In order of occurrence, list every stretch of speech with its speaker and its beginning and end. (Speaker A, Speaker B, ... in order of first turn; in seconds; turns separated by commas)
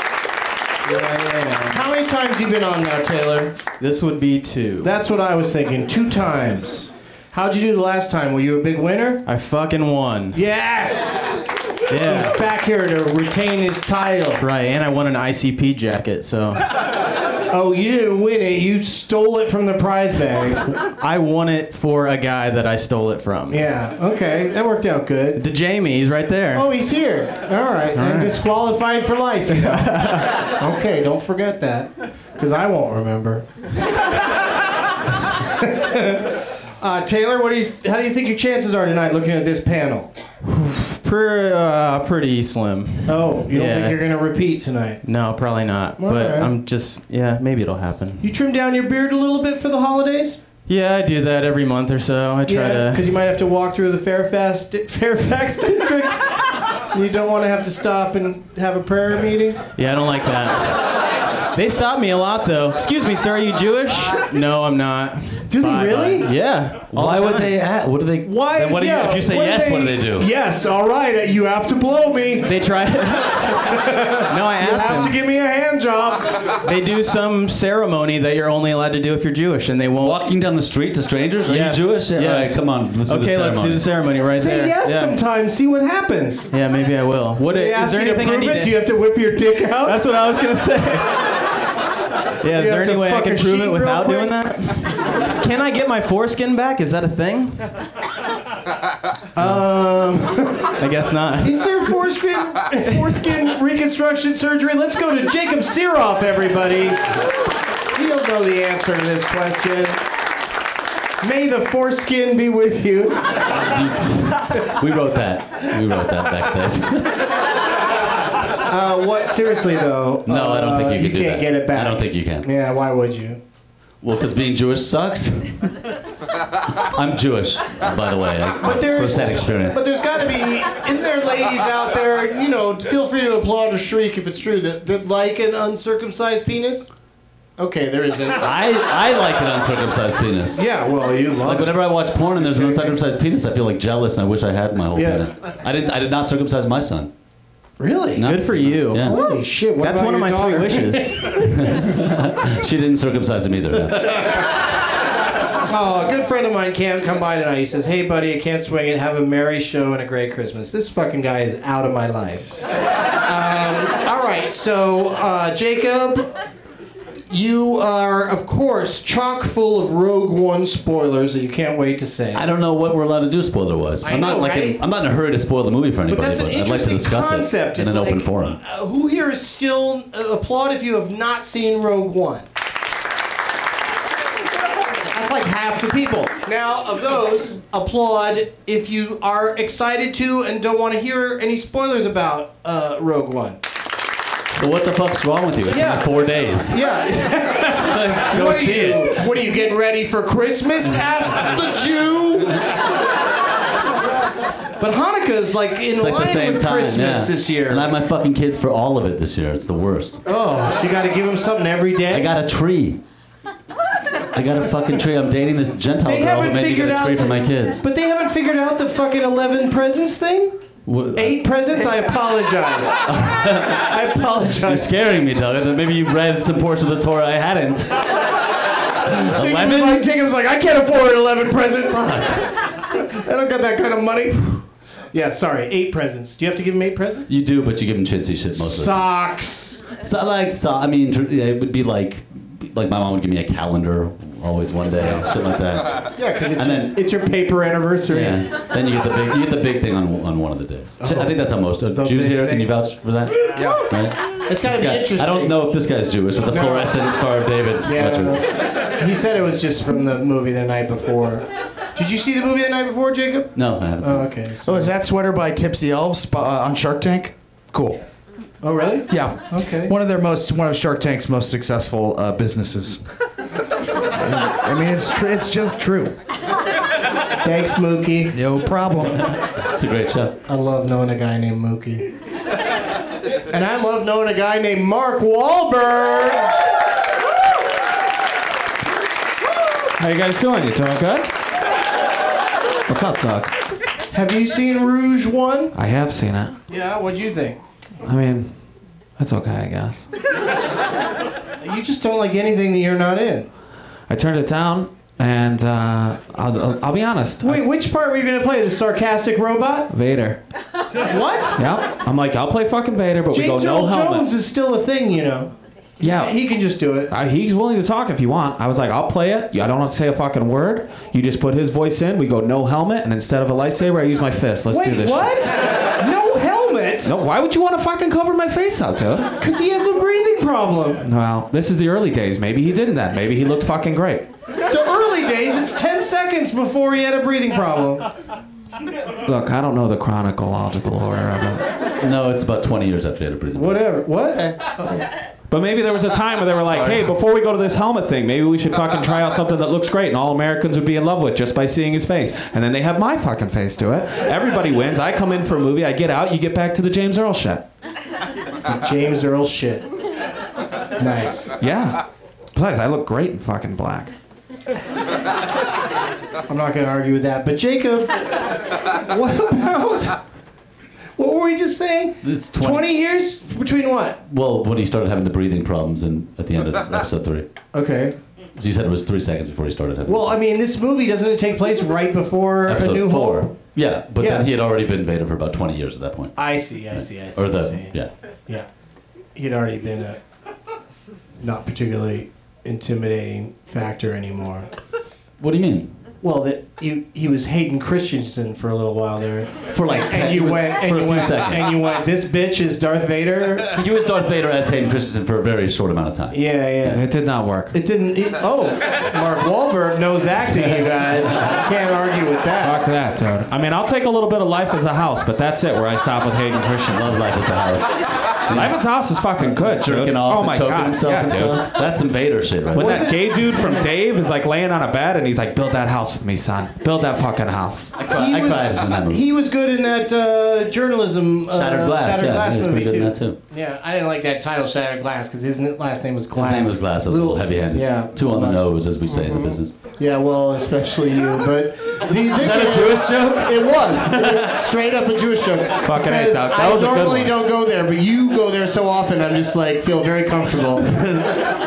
Speaker A: 0.9-3.6, Speaker B: 1.4-1.8, Speaker B: 3.8-4.9, Speaker A: 4.8-9.2, Speaker B: 9.3-10.4, Speaker A: 10.3-14.4, Speaker B: 11.9-12.4, Speaker B: 14.4-16.6, Speaker A: 17.5-20.7, Speaker B: 20.8-23.6, Speaker A: 23.5-25.4, Speaker B: 25.4-26.7, Speaker A: 26.6-33.5, Speaker B: 27.9-28.4, Speaker B: 29.5-30.4, Speaker A: 35.5-40.1, Speaker B: 40.4-44.0, Speaker A: 43.0-45.0, Speaker B: 45.0-48.3, Speaker A: 46.0-46.5, Speaker A: 48.2-50.4, Speaker B: 50.7-53.1, Speaker A: 52.5-59.6, Speaker B: 59.8-61.0, Speaker B: 61.5-67.6, Speaker A: 65.5-66.3, Speaker C: 66.9-70.3, Speaker A: 68.2-72.5, Speaker B: 72.4-75.2, Speaker A: 73.7-76.5, Speaker B: 76.6-80.2, Speaker C: 80.0-83.9, Speaker B: 81.5-85.2, Speaker A: 84.3-86.5, Speaker B: 86.5-88.9, Speaker A: 87.4-90.0, Speaker B: 89.7-91.5, Speaker B: 92.4-97.8, Speaker A: 92.5-94.4, Speaker A: 99.4-100.7, Speaker B: 100.8-101.7, Speaker A: 101.4-107.2, Speaker A: 107.9-110.0, Speaker A: 111.2-113.4, Speaker C: 113.5-117.4, Speaker A: 118.6-123.4, Speaker C: 120.3-122.5, Speaker C: 124.0-125.8, Speaker C: 126.8-130.0, Speaker A: 128.6-136.9, Speaker A: 137.6-138.5, Speaker C: 138.4-140.6, Speaker A: 140.6-143.0, Speaker C: 141.4-147.1, Speaker A: 144.9-145.3, Speaker A: 147.8-148.2, Speaker C: 148.2-149.2, Speaker B: 148.2-149.3, Speaker A: 149.0-151.8, Speaker B: 149.8-151.4, Speaker C: 151.4-154.3, Speaker A: 155.6-162.6, Speaker A: 163.2-166.4, Speaker A: 167.3-172.5, Speaker C: 172.3-178.6, Speaker A: 174.0-174.8, Speaker A: 176.1-182.5, Speaker A: 185.1-193.6, Speaker C: 194.5-196.8, Speaker A: 195.7-196.1, Speaker A: 196.7-202.6, Speaker C: 197.7-199.3, Speaker A: 204.8-207.9, Speaker C: 206.0-210.2, Speaker A: 210.3-212.3, Speaker C: 212.1-213.0, Speaker C: 214.3-217.8, Speaker A: 216.1-220.6, Speaker C: 220.9-221.4, Speaker A: 221.1-224.9, Speaker C: 223.1-223.9, Speaker C: 224.6-228.1, Speaker A: 229.1-237.3, Speaker C: 229.3-230.1, Speaker C: 237.3-239.1, Speaker A: 238.6-239.8, Speaker C: 240.0-246.9, Speaker A: 246.2-248.4, Speaker C: 248.1-258.4, Speaker A: 251.0-252.7, Speaker D: 253.6-253.9, Speaker A: 254.5-255.6, Speaker A: 256.5-257.0, Speaker A: 257.9-264.9, Speaker C: 263.6-264.3, Speaker D: 264.6-268.0, Speaker A: 268.6-269.9, Speaker D: 269.1-273.0, Speaker D: 274.2-276.2, Speaker A: 277.4-278.4, Speaker D: 278.3-279.3, Speaker C: 279.6-280.4, Speaker A: 280.5-282.1, Speaker A: 283.5-286.6, Speaker E: 290.0-291.3, Speaker E: 292.9-293.5, Speaker A: 294.1-295.8, Speaker E: 295.7-296.6, Speaker A: 296.7-297.6, Speaker E: 298.0-298.6, Speaker E: 299.2-300.1, Speaker A: 301.6-303.5, Speaker E: 304.1-307.6, Speaker A: 307.4-309.9, Speaker E: 309.9-310.4, Speaker A: 311.1-311.6, Speaker E: 311.6-314.3, Speaker A: 313.3-317.1, Speaker E: 316.0-316.3, Speaker E: 317.1-325.3, Speaker A: 324.7-327.1, Speaker E: 327.0-329.3, Speaker A: 329.4-331.0, Speaker E: 331.0-334.3, Speaker A: 334.7-338.1, Speaker E: 339.2-341.7, Speaker C: 342.0-344.1, Speaker A: 343.6-345.1, Speaker E: 345.5-357.6, Speaker A: 358.7-359.9, Speaker A: 361.0-361.5, Speaker E: 361.6-364.1, Speaker A: 366.5-368.2, Speaker A: 369.0-370.2, Speaker A: 371.2-374.2, Speaker C: 372.2-372.9, Speaker C: 374.3-377.5, Speaker A: 377.7-378.2, Speaker C: 378.6-380.4, Speaker A: 380.1-383.6, Speaker C: 382.7-386.5, Speaker A: 384.2-384.5, Speaker A: 386.4-388.7, Speaker C: 387.4-388.1, Speaker A: 389.4-390.2, Speaker A: 391.4-394.7, Speaker C: 395.4-395.9, Speaker A: 396.2-403.8, Speaker C: 399.7-401.8, Speaker C: 403.8-407.0, Speaker A: 406.3-407.0, Speaker E: 406.9-407.8, Speaker A: 407.7-412.8, Speaker E: 412.6-417.2, Speaker C: 416.9-418.8, Speaker E: 418.5-421.7, Speaker C: 419.4-423.1, Speaker A: 422.7-423.9, Speaker E: 422.7-427.9, Speaker C: 428.0-429.2, Speaker A: 428.1-451.2, Speaker C: 431.5-433.4, Speaker C: 436.3-439.7, Speaker E: 442.4-444.5, Speaker C: 442.7-443.2, Speaker E: 445.8-447.5